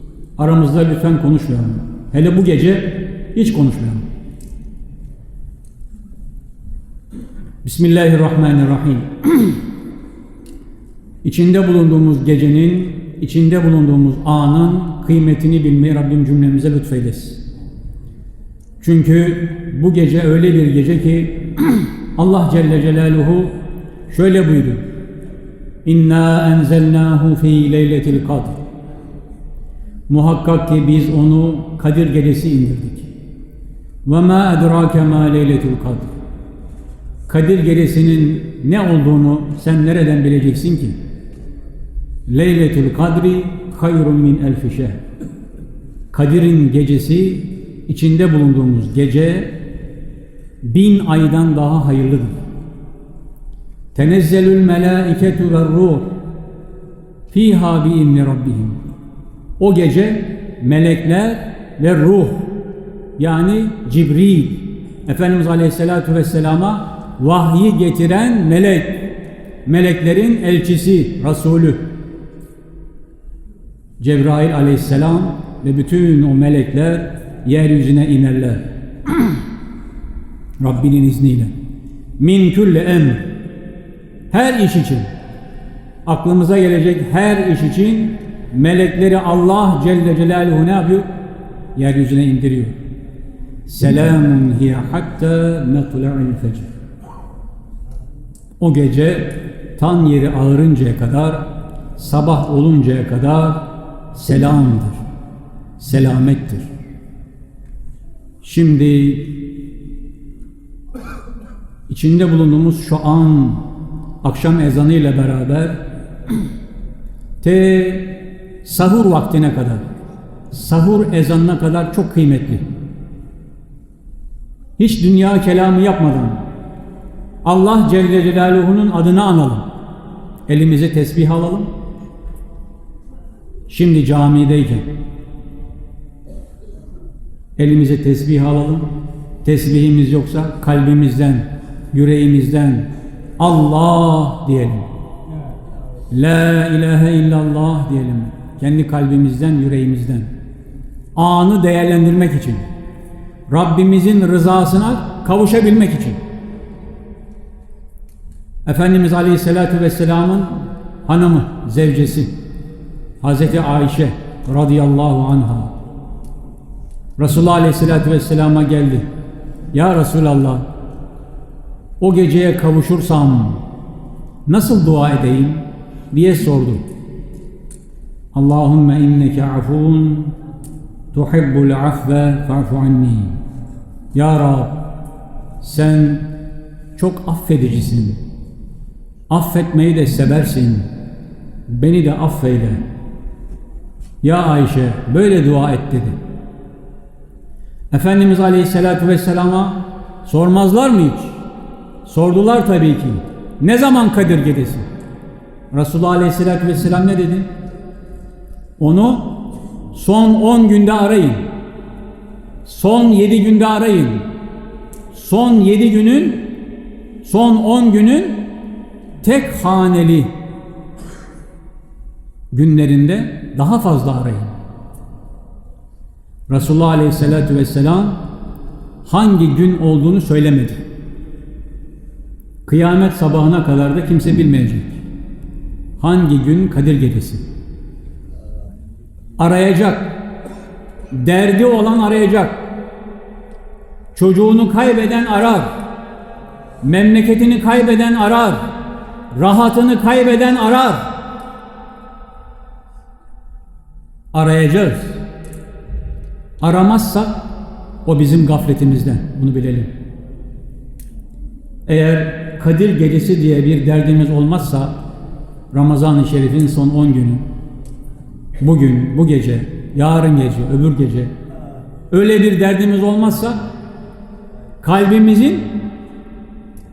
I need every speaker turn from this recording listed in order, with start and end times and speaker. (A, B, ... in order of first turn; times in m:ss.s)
0:00.4-0:04.0 A
0:07.6-0:09.6 A
0:11.2-0:17.4 A
0:18.8-0:24.8 A
0:25.8-0:28.6 A
0:30.1-0:33.1 A
0:34.0-0:36.2 A
0:37.3-0:41.0 A
0:42.3-0:45.0 A
0:46.1-0:49.6 A
0:50.6-0:52.4 A
0:53.9-0:56.2 A
0:57.3-0:58.8 A
0:59.6-1:02.5 A
1:03.2-1:09.1 A
1:09.6-1:11.9 A
1:14.0-1:18.7 A
1:20.6-1:21.5 A
1:22.2-1:23.3 A
1:24.3-1:25.1 A
1:26.0-1:31.1 A
1:31.7-1:32.8 A
1:33.7-1:36.7 A
1:38.6-1:45.0 A
1:45.8-1:46.7 A
1:48.4-1:49.4 A
1:51.9-1:53.7 A
1:54.2-1:55.8 A
1:57.4-1:59.9 A
2:00.5-2:02.6 A
2:04.8-2:06.5 A
2:07.4-2:09.7 A
2:10.5-2:11.7 A
2:13.7-2:14.9 A
2:17.6-2:24.9 A
2:26.1-2:30.3 A
2:31.2-2:32.6 A
2:33.5-2:36.2 A
2:38.6-2:42.4 A
2:43.2-2:45.8 A
2:47.2-2:49.1 A
2:49.7-2:50.7 A
2:52.0-2:53.6 A
2:54.4-2:56.8 A
2:58.3-3:00.4 A
3:01.1-3:03.4 A
3:04.1-3:04.9 A
3:05.6-3:06.3 A
3:07.0-3:08.2 A
3:09.3-3:10.9 A
3:11.7-3:12.9 A
3:14.2-3:16.2 A
3:17.9-3:21.4 A
3:22.0-3:24.9 A
3:25.7-3:27.5 A
3:28.8-3:31.5 A
3:32.6-3:34.3 A
3:35.1-3:36.5 A
3:37.2-3:38.5 A
3:39.2-3:40.4 A
3:42.5-3:44.5 A
3:46.5-3:48.2 A
3:49.0-3:50.8 A
3:52.6-3:55.0 A
3:56.0-3:57.4 A
3:59.4-4:00.2 A
4:01.1-4:02.7 A
4:04.1-4:05.8 A
4:06.8-4:08.7 A
4:09.3-4:11.1 A
4:14.3-4:15.2 A
4:16.6-4:17.5 A
4:18.0-4:19.9 A
4:21.8-4:25.0 A
4:25.7-4:27.4 A
4:28.6-4:31.4 A
4:32.1-4:33.7 A
4:34.8-4:35.8 A